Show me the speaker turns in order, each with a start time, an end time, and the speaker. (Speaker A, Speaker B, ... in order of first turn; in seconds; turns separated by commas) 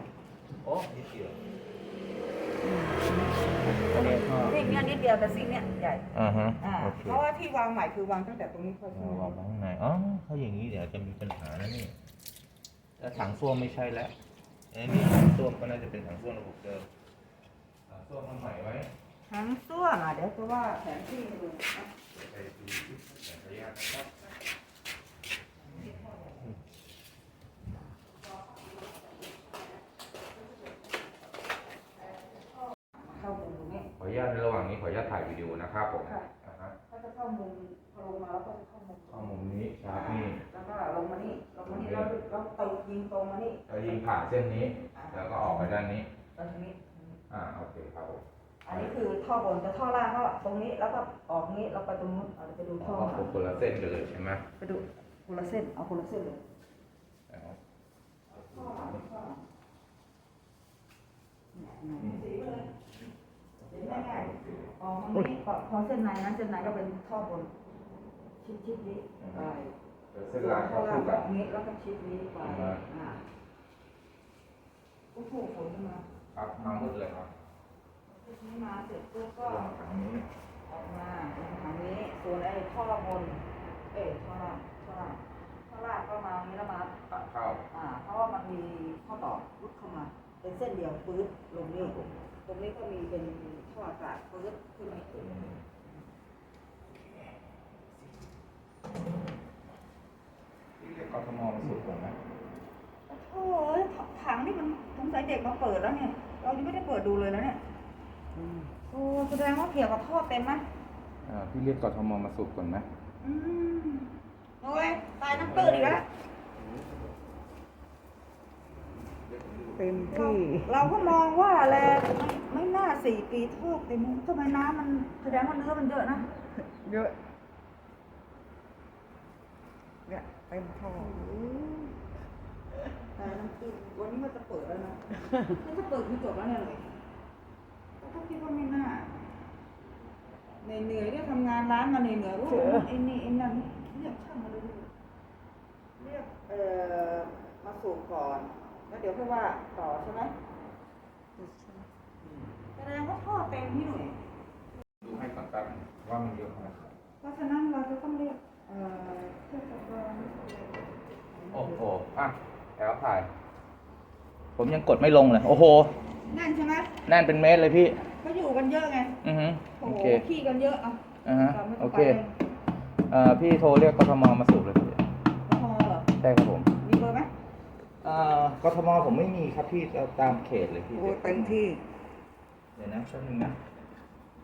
Speaker A: 0.6-1.4, Speaker B: 2.6-6.0, Speaker A: 3.6-4.7, Speaker A: 6.1-7.2, Speaker B: 6.6-9.4, Speaker A: 8.9-11.9, Speaker A: 13.0-14.1, Speaker A: 14.7-16.9, Speaker A: 17.9-18.9, Speaker B: 19.3-21.9, Speaker A: 22.1-24.1, Speaker B: 25.7-26.4, Speaker B: 28.4-29.4, Speaker B: 32.6-33.9, Speaker A: 34.0-36.7, Speaker B: 36.9-39.3, Speaker A: 39.1-40.4, Speaker B: 39.9-43.9, Speaker A: 41.6-42.1, Speaker A: 43.7-46.1, Speaker B: 44.9-45.7, Speaker B: 46.4-47.2, Speaker A: 47.3-48.9, Speaker B: 48.6-53.3, Speaker A: 52.8-54.4, Speaker B: 54.6-56.4, Speaker A: 57.3-57.6, Speaker B: 58.3-59.4, Speaker A: 58.7-59.0, Speaker B: 61.5-62.7, Speaker A: 62.0-62.2, Speaker A: 63.7-64.7, Speaker B: 63.7-67.5, Speaker B: 68.4-69.7, Speaker A: 69.2-69.5, Speaker A: 70.1-71.2, Speaker B: 70.3-73.2, Speaker A: 72.4-72.8, Speaker B: 75.1-76.0, Speaker A: 76.3-77.3, Speaker B: 78.1-79.7, Speaker A: 79.4-80.2, Speaker B: 80.7-87.1, Speaker A: 87.1-87.6, Speaker B: 87.7-95.4, Speaker A: 91.8-92.2, Speaker A: 95.2-95.6, Speaker A: 100.8-102.2, Speaker B: 103.1-107.6, Speaker C: 108.4-108.7, Speaker B: 108.9-110.6, Speaker A: 111.2-112.9, Speaker B: 113.2-116.0, Speaker A: 115.4-116.0, Speaker C: 119.7-120.7, Speaker B: 120.1-126.2, Speaker C: 126.8-127.1, Speaker C: 130.1-131.8, Speaker B: 130.9-131.7, Speaker B: 133.2-136.9, Speaker B: 138.0-139.1, Speaker B: 140.6-144.9, Speaker C: 142.6-142.8, Speaker B: 146.0-150.3, Speaker C: 151.4-151.8, Speaker B: 152.7-154.2, Speaker A: 155.0-156.9, Speaker B: 157.2-161.8, Speaker A: 161.5-163.3, Speaker A: 164.6-165.9, Speaker B: 166.3-166.9, Speaker A: 167.1-168.0, Speaker B: 168.2-169.2, Speaker A: 169.2-170.2, Speaker B: 169.8-172.3, Speaker A: 171.2-172.2, Speaker A: 173.1-175.0, Speaker B: 175.4-176.1, Speaker A: 176.2-176.7, Speaker B: 176.8-177.3, Speaker A: 178.0-181.7, Speaker C: 180.9-181.8, Speaker A: 182.8-183.6